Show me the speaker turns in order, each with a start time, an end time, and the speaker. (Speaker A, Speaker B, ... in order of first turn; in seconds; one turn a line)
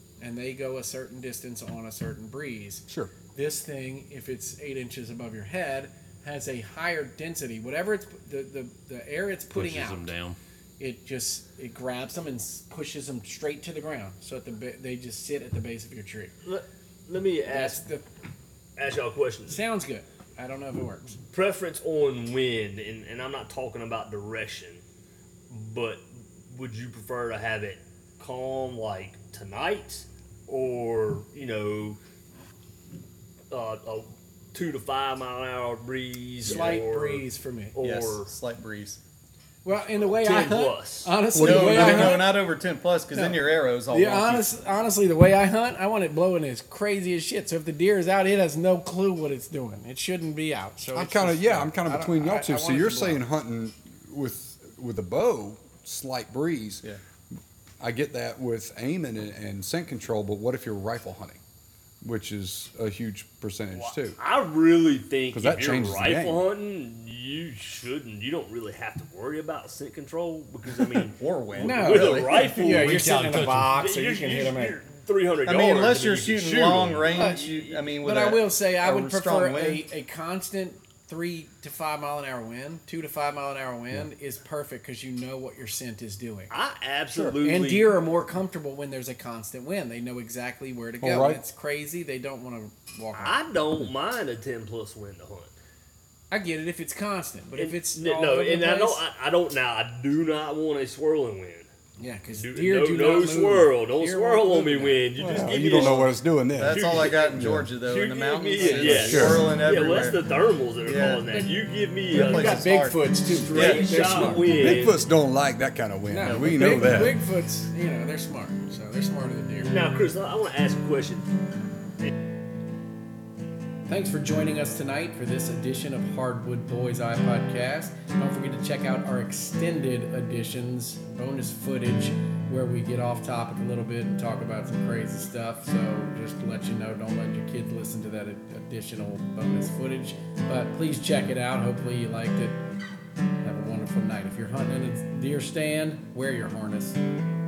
Speaker A: 0.2-10.1
Speaker B: 2.9-3.1
Speaker C: 9.5-10.4
Speaker A: 10.8-16.3
Speaker D: 16.4-17.8
Speaker A: 17.5-18.0
Speaker D: 18.8-19.6
Speaker A: 19.5-21.2
Speaker D: 21.3-24.8
Speaker D: 25.5-32.0
Speaker D: 33.5-38.3
Speaker A: 36.4-37.8
Speaker E: 36.5-36.8
Speaker E: 37.8-39.0
Speaker A: 39.6-42.4
Speaker D: 40.0-41.1
Speaker B: 41.3-42.2
Speaker E: 41.3-44.5
Speaker A: 43.1-53.2
Speaker B: 50.9-56.8
Speaker B: 57.8-61.4
Speaker B: 62.0-64.2
Speaker D: 63.7-73.0
Speaker B: 65.3-66.5
Speaker E: 71.1-72.5
Speaker A: 71.6-74.8
Speaker C: 72.6-73.8
Speaker D: 73.7-77.8
Speaker E: 75.5-79.8
Speaker A: 77.1-77.5
Speaker A: 78.0-86.5
Speaker D: 86.5-88.0
Speaker B: 87.1-87.4
Speaker A: 87.4-93.4
Speaker B: 91.0-91.4
Speaker D: 93.1-95.5
Speaker A: 96.3-99.0
Speaker D: 97.6-101.7
Speaker A: 102.0-105.1
Speaker D: 102.3-112.7
Speaker B: 105.2-107.7
Speaker E: 105.5-110.2
Speaker A: 108.6-109.5
Speaker B: 108.7-109.5
Speaker E: 110.8-111.3
Speaker E: 112.1-114.5
Speaker A: 112.1-114.8
Speaker D: 113.3-115.0
Speaker B: 114.5-117.2
Speaker A: 116.1-119.8
Speaker E: 116.2-117.0
Speaker D: 119.6-121.3
Speaker A: 123.9-142.6
Speaker A: 143.4-147.0